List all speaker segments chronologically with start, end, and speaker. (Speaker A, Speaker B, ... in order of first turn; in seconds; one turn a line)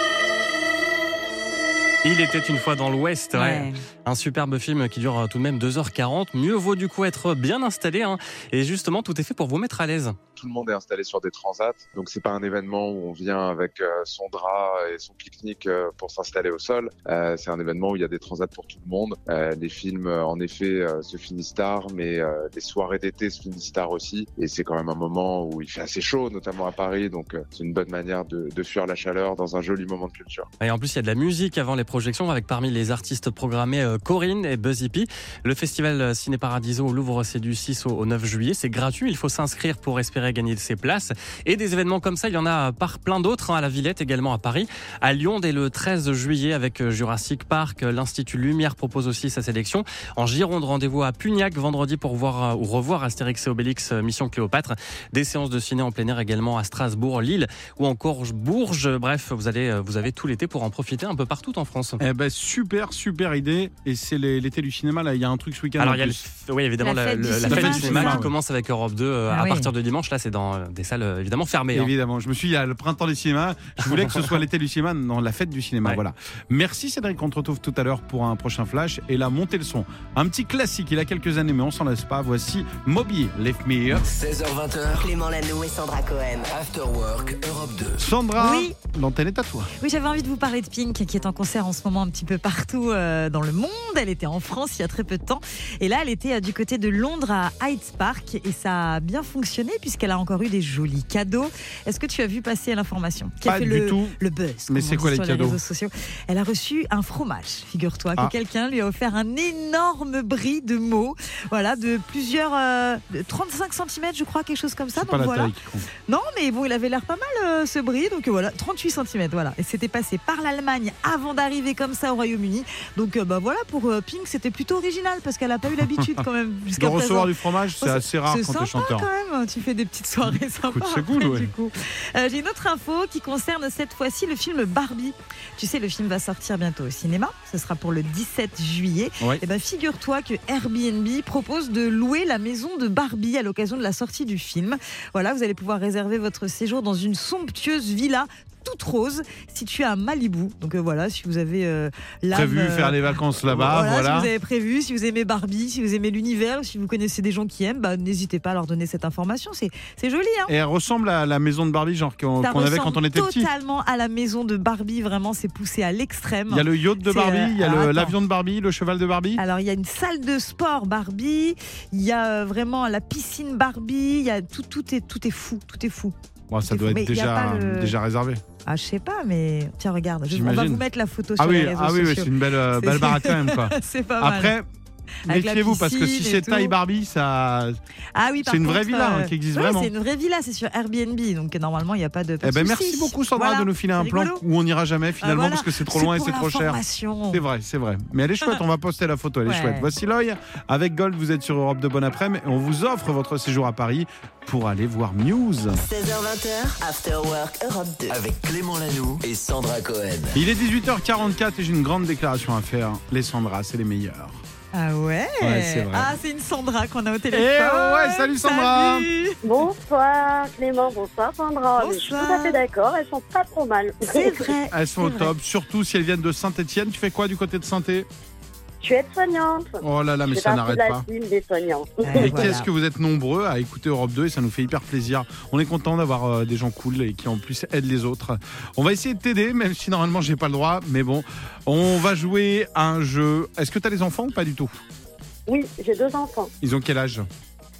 Speaker A: 2.0-10.2
Speaker B: 3.3-3.8
Speaker C: 10.4-30.5
Speaker A: 30.6-62.0
Speaker D: 62.0-66.2
Speaker A: 65.8-71.9
Speaker B: 66.8-68.2
Speaker D: 67.5-68.3
Speaker B: 69.3-69.7
Speaker D: 71.7-84.1
Speaker E: 84.0-85.2
Speaker F: 85.0-86.5
Speaker E: 86.4-88.0
Speaker D: 88.0-89.7
Speaker B: 88.4-88.8
Speaker B: 89.8-115.5
Speaker D: 103.5-104.2
Speaker D: 104.7-105.6
Speaker D: 114.9-115.9
Speaker B: 116.1-160.5
Speaker D: 125.8-126.2
Speaker D: 126.8-129.1
Speaker D: 130.2-131.5
Speaker D: 152.3-154.3
Speaker D: 160.5-163.5
Speaker B: 162.4-168.2
Speaker D: 166.5-169.4
Speaker B: 169.4-177.9
Speaker D: 176.5-178.4
Speaker B: 178.7-184.6
Speaker D: 180.3-180.8
Speaker D: 181.4-184.7
Speaker D: 185.2-187.8
Speaker B: 185.3-186.8
Speaker B: 188.2-194.4
Speaker D: 188.4-189.9
Speaker D: 192.4-196.8
Speaker B: 195.2-197.4
Speaker D: 197.3-205.8
Speaker B: 199.4-199.9
Speaker F: 205.8-208.2
Speaker E: 208.1-210.4
Speaker D: 210.3-214.4
Speaker B: 214.7-219.4
Speaker D: 215.4-216.2
Speaker D: 217.3-219.1
Speaker G: 219.4-224.5
Speaker B: 221.8-222.6
Speaker B: 224.1-225.3
Speaker D: 224.7-228.1
Speaker G: 228.8-229.8
Speaker D: 229.8-231.1
Speaker G: 230.3-232.5
Speaker B: 232.0-232.7
Speaker D: 232.2-244.7
Speaker G: 245.5-246.5
Speaker D: 246.6-247.2